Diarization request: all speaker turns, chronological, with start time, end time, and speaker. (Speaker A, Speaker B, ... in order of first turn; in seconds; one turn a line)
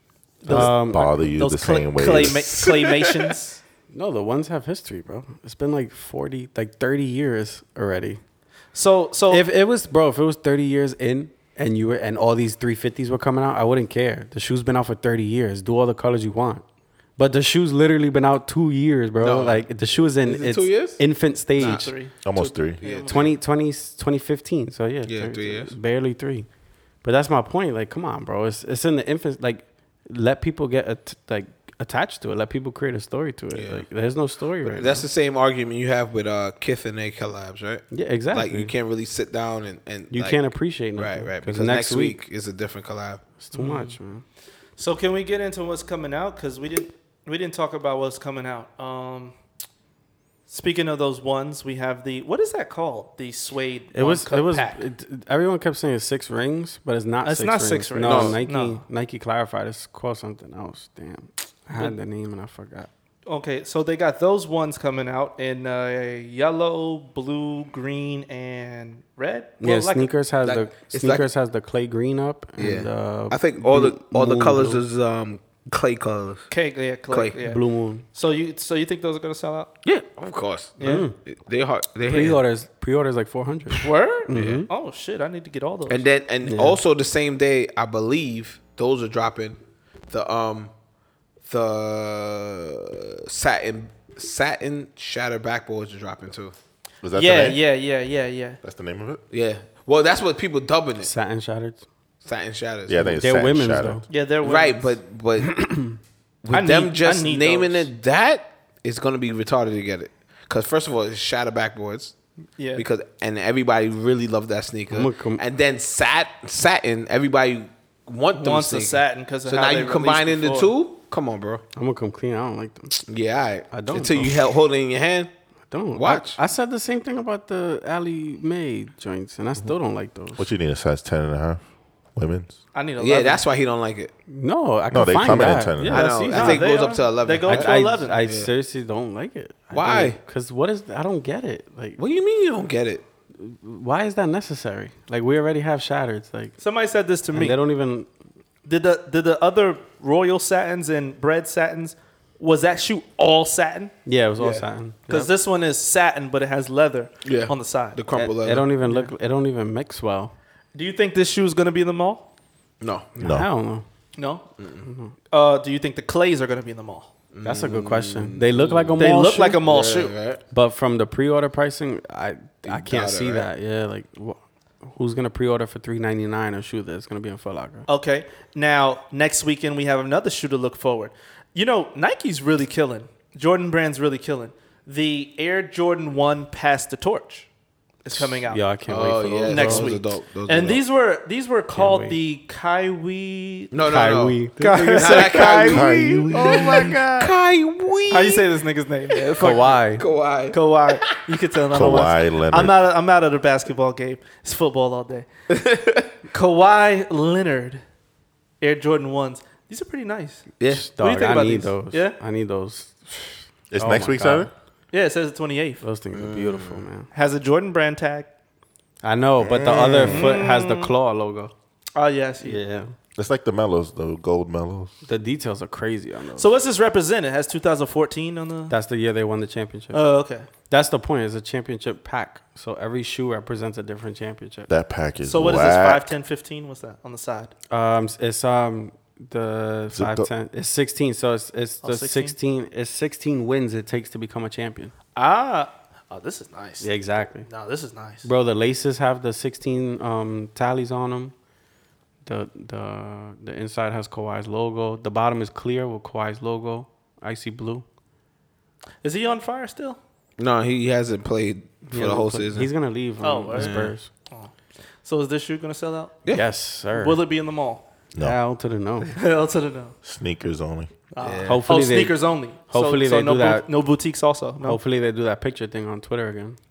Speaker A: 0.4-3.6
Speaker B: 0.5-2.5
Speaker C: 0.5-1.2
Speaker D: 2.1-3.3
Speaker C: 3.9-8.2
Speaker A: 8.7-9.4
Speaker C: 9.3-16.6
Speaker C: 17.2-21.9
Speaker D: 19.2-19.6
Speaker D: 20.2-21.0
Speaker D: 21.5-23.4
Speaker A: 21.6-22.1
Speaker B: 22.2-22.8
Speaker A: 22.8-23.3
Speaker C: 23.1-26.5
Speaker D: 25.0-25.7
Speaker C: 27.0-35.0
Speaker D: 33.5-33.8
Speaker D: 34.6-40.4
Speaker C: 37.9-38.7
Speaker C: 40.1-42.2
Speaker D: 40.9-43.2
Speaker C: 43.4-44.2
Speaker A: 43.5-44.0
Speaker A: 44.8-49.3
Speaker A: 50.5-54.8
Speaker C: 53.9-62.9
Speaker A: 57.2-58.8
Speaker D: 58.0-58.4
Speaker A: 63.2-70.1
Speaker C: 69.6-74.8
Speaker D: 70.4-71.3
Speaker D: 72.6-76.5
Speaker A: 76.5-77.6
Speaker D: 77.1-77.4
Speaker C: 77.4-78.0
Speaker A: 78.1-79.7
Speaker D: 79.8-82.4
Speaker A: 80.8-81.1
Speaker C: 80.8-81.1
Speaker C: 82.0-84.7
Speaker A: 83.8-86.1
Speaker D: 84.3-84.7
Speaker D: 85.9-89.6
Speaker C: 86.4-86.8
Speaker D: 90.1-90.7
Speaker D: 91.4-96.5
Speaker B: 97.0-97.6
Speaker A: 97.1-98.6
Speaker B: 98.6-99.2
Speaker D: 99.3-101.1
Speaker C: 101.0-101.8
Speaker D: 102.2-103.1
Speaker B: 102.9-104.0
Speaker C: 103.0-104.0
Speaker A: 104.1-104.9
Speaker D: 104.4-105.7
Speaker C: 105.5-106.0
Speaker D: 106.4-112.1
Speaker A: 106.5-107.9
Speaker A: 112.6-112.8
Speaker D: 112.7-121.6
Speaker C: 114.9-115.4
Speaker A: 118.3-120.7
Speaker C: 121.8-123.0
Speaker D: 123.1-125.3
Speaker C: 123.7-124.4
Speaker C: 125.7-130.4
Speaker D: 125.9-126.4
Speaker B: 130.4-131.6
Speaker B: 132.1-132.6
Speaker A: 132.7-133.4
Speaker D: 133.0-134.1
Speaker C: 134.3-136.8
Speaker B: 134.9-136.1
Speaker D: 135.8-138.5
Speaker A: 136.2-138.2
Speaker C: 137.4-142.0
Speaker D: 139.7-140.2
Speaker D: 142.0-143.0
Speaker C: 143.4-146.6
Speaker A: 146.6-147.6
Speaker C: 147.3-148.1
Speaker A: 148.6-153.9
Speaker C: 154.1-155.3
Speaker D: 154.4-154.7
Speaker A: 155.1-158.0
Speaker D: 157.2-158.7
Speaker C: 158.1-160.3
Speaker A: 158.8-159.1
Speaker A: 160.7-162.3
Speaker D: 162.8-163.2
Speaker C: 163.2-163.8
Speaker B: 163.2-163.5
Speaker A: 164.2-164.4
Speaker D: 164.6-164.9
Speaker C: 164.8-165.1
Speaker A: 165.3-167.1
Speaker D: 167.3-169.1
Speaker C: 167.4-169.6
Speaker A: 169.0-170.1
Speaker D: 169.6-170.4
Speaker C: 170.5-177.8
Speaker D: 172.6-173.5
Speaker A: 177.9-187.5
Speaker A: 188.0-188.6
Speaker C: 188.2-189.9
Speaker D: 188.9-190.8
Speaker A: 189.4-193.7
Speaker C: 191.7-192.1
Speaker D: 193.7-198.5
Speaker C: 193.8-195.5
Speaker A: 194.6-197.3
Speaker B: 195.6-197.2
Speaker A: 198.1-199.5
Speaker D: 199.1-201.2
Speaker C: 199.4-200.1
Speaker A: 200.5-205.3
Speaker B: 201.7-202.7
Speaker D: 205.5-206.1
Speaker A: 206.3-207.8
Speaker A: 208.6-212.2
Speaker D: 210.6-210.9
Speaker C: 210.7-214.5
Speaker B: 213.7-214.5
Speaker A: 214.9-215.8
Speaker C: 215.8-217.1
Speaker D: 216.1-216.8
Speaker A: 217.1-218.3
Speaker C: 219.0-221.5
Speaker B: 219.4-220.3
Speaker A: 220.0-220.9
Speaker A: 221.9-222.6
Speaker C: 222.4-222.9
Speaker B: 223.2-224.9
Speaker C: 225.1-226.5
Speaker A: 226.3-228.7
Speaker C: 228.7-230.0
Speaker A: 229.9-230.5
Speaker C: 230.7-234.7
Speaker B: 234.7-236.1
Speaker A: 235.2-237.5
Speaker C: 237.7-244.9
Speaker B: 239.9-240.3
Speaker A: 241.8-242.3
Speaker A: 245.2-246.9
Speaker C: 246.8-247.5
Speaker A: 247.4-248.3
Speaker C: 248.2-251.3
Speaker C: 252.2-257.8
Speaker A: 259.0-260.0
Speaker D: 260.4-262.7
Speaker C: 261.9-264.1
Speaker A: 263.2-264.5
Speaker D: 263.5-263.9
Speaker A: 265.0-266.2
Speaker C: 266.3-267.2
Speaker A: 266.9-267.8
Speaker C: 268.2-269.1
Speaker A: 269.0-269.9
Speaker B: 270.0-270.9
Speaker A: 271.1-274.8
Speaker D: 271.2-271.6
Speaker C: 271.4-273.6
Speaker C: 274.6-276.6